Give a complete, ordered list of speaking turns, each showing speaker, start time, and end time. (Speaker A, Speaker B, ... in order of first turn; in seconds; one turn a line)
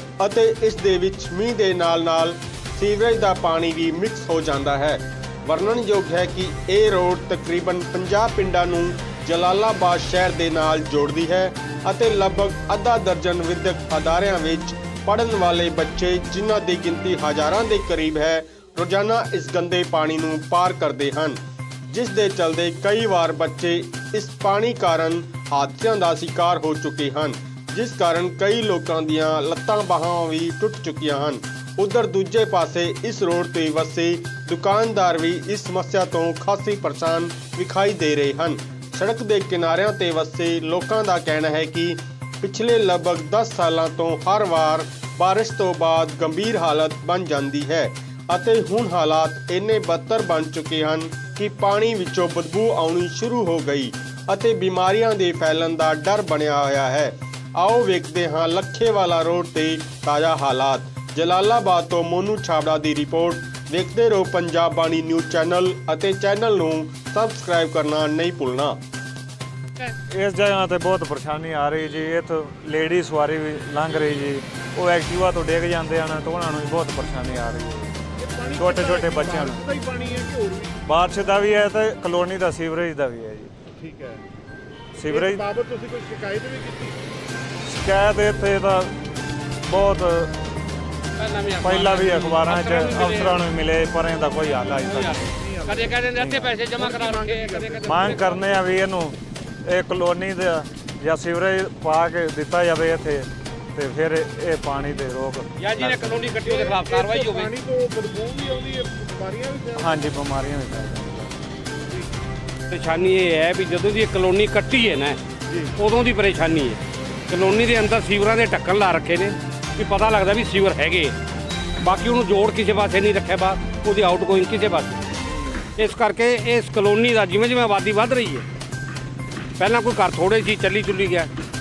Speaker A: 0.2-21.4
Speaker A: 21.9-68.8
Speaker B: 70.1-78.0
Speaker C: 78.2-80.8
Speaker B: 78.6-79.6
Speaker B: 80.8-83.5
Speaker C: 83.8-84.2
Speaker B: 85.0-85.4
Speaker C: 85.1-87.0
Speaker B: 87.6-88.9
Speaker B: 89.6-90.3
Speaker D: 91.2-93.4
Speaker B: 91.6-95.3
Speaker D: 94.8-98.8
Speaker C: 95.4-96.0
Speaker B: 96.1-96.5
Speaker C: 96.8-98.2
Speaker B: 97.8-106.2
Speaker D: 105.6-107.5
Speaker C: 106.4-110.1
Speaker B: 109.8-111.3
Speaker D: 112.7-115.2
Speaker D: 115.8-121.2
Speaker D: 121.8-125.0
Speaker D: 125.7-128.5
Speaker D: 129.6-131.3